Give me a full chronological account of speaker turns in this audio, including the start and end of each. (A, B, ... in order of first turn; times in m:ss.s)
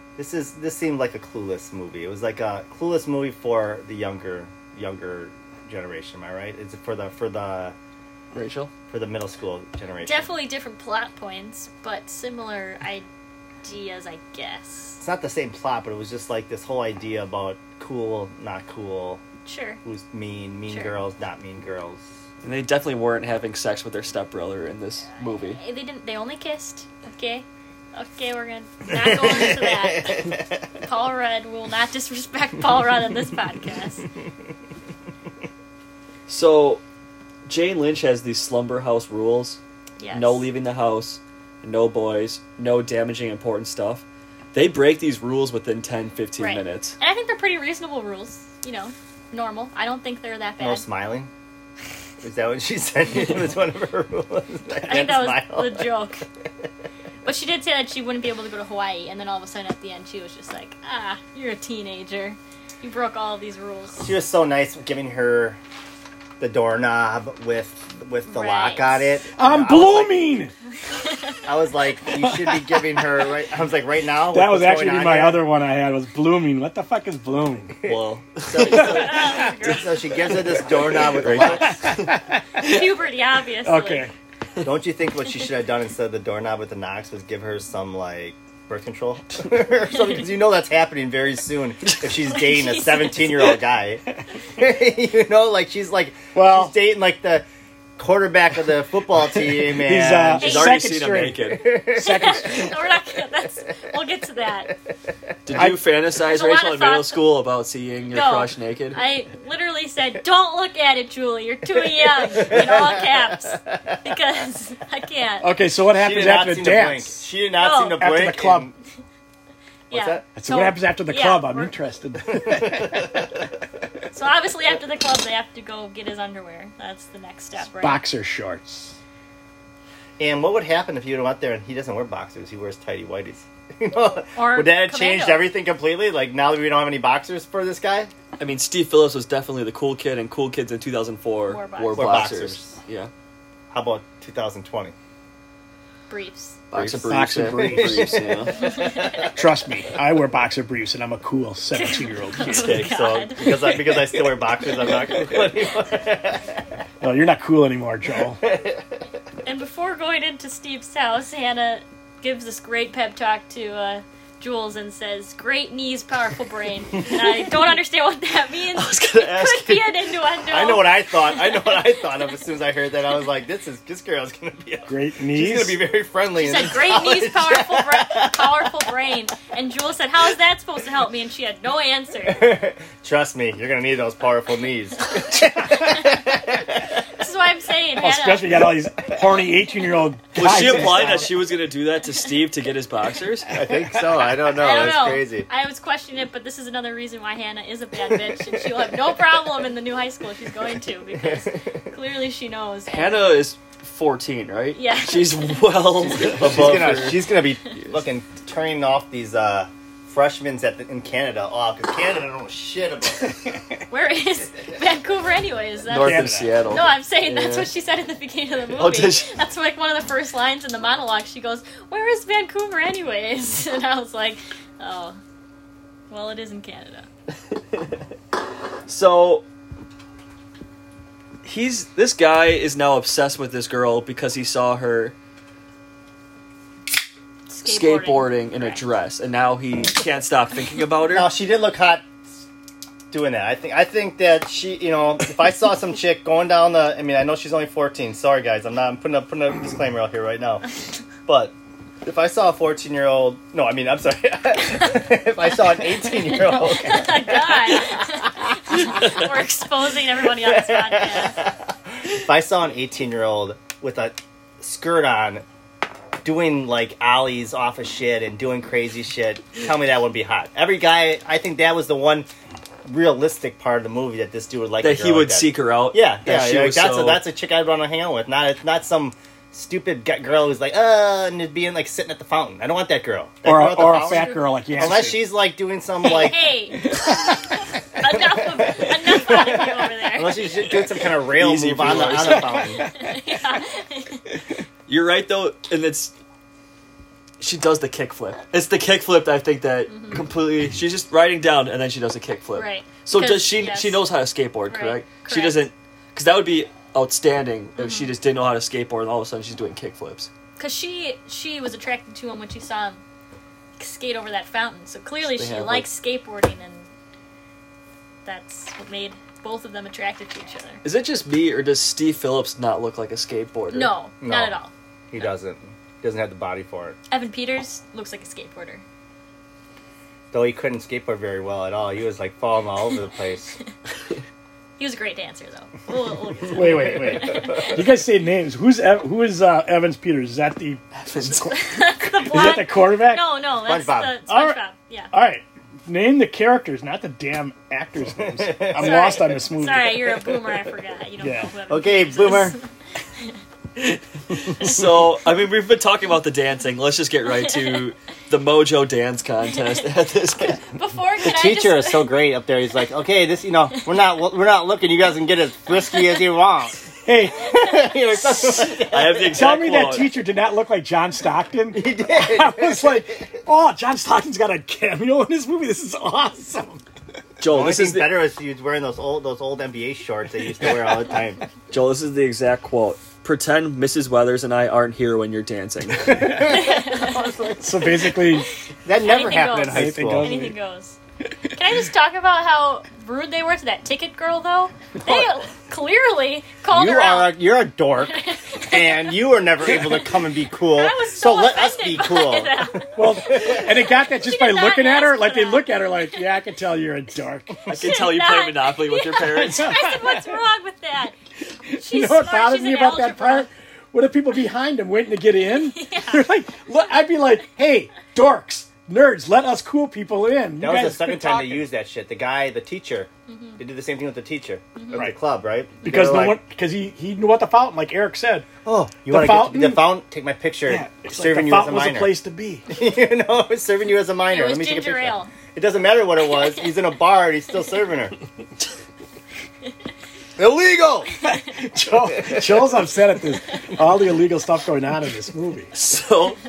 0:00.2-0:07.8 A
0:08.3-0:08.7 B
0:08.9-0:10.3 A
0:10.0-0:13.0 C
0:13.6-0:15.0 C
0:15.0-0:19.2 A
0:19.4-0:19.8 C
0:19.8-0:22.0 A
0:20.7-0:20.9 C
0:22.4-0:25.6 B
0:25.2-0:34.1 C
0:28.9-0:30.4 A
0:36.3-0:36.8 B
0:37.4-0:39.6 B
0:40.0-0:40.4 C
0:40.1-0:47.0 B
0:46.4-0:50.8 C
0:50.6-0:51.3 A
0:52.2-0:55.9 A
0:54.9-0:56.2 C
0:57.2-1:04.1 C
1:04.0-1:05.6 A
1:06.4-1:10.3 A
1:08.3-1:09.1 C
1:09.4-1:10.5 D
1:10.9-1:11.4 C
1:11.4-1:15.4 A
1:12.2-1:12.6 D
1:14.3-1:17.8 D
1:17.8-1:21.8 A
1:17.8-1:19.0 B
1:18.7-1:19.9 C
1:21.1-1:22.1 B
1:21.6-1:22.8 D
1:22.6-1:24.1 C
1:23.6-1:24.1 D
1:24.6-1:37.4 A
1:32.3-1:33.4 C
1:36.3-1:36.7 D
1:38.0-1:40.5 A
1:39.7-1:42.5 D
1:40.4-1:41.8 B
1:40.4-1:40.8 C
1:41.5-1:42.6 A
1:41.9-1:44.8 C
1:45.4-1:49.0 B
1:46.2-1:47.2 C
1:48.1-1:55.5 C
1:52.0-1:53.7 A
1:55.4-1:57.2 D
1:55.9-1:58.7 A
1:57.6-1:58.0 C
1:57.9-1:58.7 D
1:59.9-2:01.7 C
1:59.9-2:00.2 A
2:00.3-2:03.1 D
2:02.3-2:03.2 A
2:04.1-2:08.0 C
2:07.8-2:09.0 D
2:10.2-2:18.1 A
2:14.3-2:15.5 C
2:18.4-2:23.1 B
2:21.5-2:22.2 C
2:21.9-2:22.8 A
2:23.7-2:24.9 A
2:26.1-2:26.6 C
2:26.7-2:28.7 B
2:26.8-2:28.2 D
2:27.8-2:28.1 A
2:28.6-2:29.1 C
2:28.8-2:29.2 A
2:29.0-2:32.8 D
2:31.7-2:33.8 C
2:32.4-2:36.6 A
2:37.0-2:38.4 D
2:38.4-2:38.8 A
2:39.4-2:52.0 C
2:48.7-2:49.9 B
2:50.5-2:58.7 A
2:54.9-2:55.8 D
2:56.4-3:02.5 C
3:02.3-3:06.9 A
3:05.8-3:06.1 C
3:07.2-3:08.6 C
3:08.0-3:11.3 D
3:10.3-3:13.5 B
3:10.9-3:11.1 A
3:13.5-3:15.5 A
3:14.6-3:23.2 C
3:21.2-3:21.8 A
3:22.9-3:27.3 B
3:24.7-3:25.8 C
3:26.2-3:33.4 A
3:33.9-3:45.2 C
3:35.9-3:37.7 B
3:36.0-3:36.5 D
3:38.7-3:39.3 B
3:46.1-3:47.1 C
3:48.9-3:49.4 B
3:51.4-3:55.1 B
3:57.5-3:58.8 C
3:57.6-4:01.3 B
4:01.1-4:02.0 A
4:03.1-4:10.6 A
4:11.2-4:18.0 A
4:16.4-4:21.4 C
4:20.4-4:25.4 A
4:26.2-4:32.3 A
4:32.8-4:46.5 A
4:34.8-4:37.2 B
4:43.4-4:45.2 D
4:43.9-4:44.8 C
4:46.0-4:47.0 C
4:48.0-4:50.5 C
4:49.0-4:52.8 A
4:51.3-4:52.7 B
4:52.2-4:53.1 D
4:52.7-4:54.3 C
4:54.9-4:56.1 B
4:57.4-5:10.3 B
4:59.9-5:00.2 C
5:02.5-5:04.0 C
5:04.7-5:05.7 C
5:07.8-5:08.1 C
5:10.6-5:13.0 C
5:13.8-5:16.9 C
5:15.3-5:15.9 B
5:18.2-5:20.8 C
5:20.8-5:23.9 B
5:23.7-5:24.7 C
5:24.2-5:24.6 A
5:25.1-5:27.0 A
5:27.1-5:28.8 C
5:30.3-5:33.5 A
5:34.8-5:37.8 C
5:36.5-5:43.2 D
5:37.0-5:37.4 A
5:41.0-5:41.5 B
5:41.5-5:45.1 C
5:43.6-5:44.2 A
5:44.3-5:44.6 D
5:45.1-5:50.3 D
5:48.2-5:49.3 A
5:48.8-5:52.6 C
5:51.2-5:51.5 D
5:51.7-5:52.6 A
5:53.8-6:00.6 B
5:57.4-5:57.8 C
6:00.6-6:02.1 C
6:01.2-6:09.5 A
6:07.0-6:07.5 D
6:08.8-6:10.1 B
6:09.3-6:16.8 D
6:11.7-6:13.1 A
6:17.4-6:18.2 B
6:17.4-6:21.4 A
6:21.7-6:26.3 B
6:26.0-6:26.6 D
6:26.2-6:28.0 A
6:26.4-6:27.3 C
6:27.6-6:28.5 D
6:28.8-6:30.3 A
6:29.0-6:31.0 C
6:29.5-6:30.6 D
6:31.5-6:37.4 C
6:36.7-6:43.7 A
6:38.0-6:39.1 C
6:40.7-6:46.2 C
6:42.9-6:48.0 D
6:47.7-6:49.9 B
6:47.7-6:51.1 C
6:49.6-6:50.0 D
6:51.7-7:01.6 D
6:51.7-6:53.5 C
6:55.6-6:56.2 C
7:00.6-7:06.4 A
7:03.3-7:03.6 C
7:04.8-7:05.0 C
7:05.8-7:08.5 D
7:08.6-7:12.2 A
7:09.1-7:09.9 D
7:10.7-7:12.7 D
7:12.7-7:18.1 A
7:14.3-7:15.3 C
7:20.4-7:21.1 A
7:21.2-7:25.7 D
7:22.1-7:22.8 A
7:25.7-7:26.4 B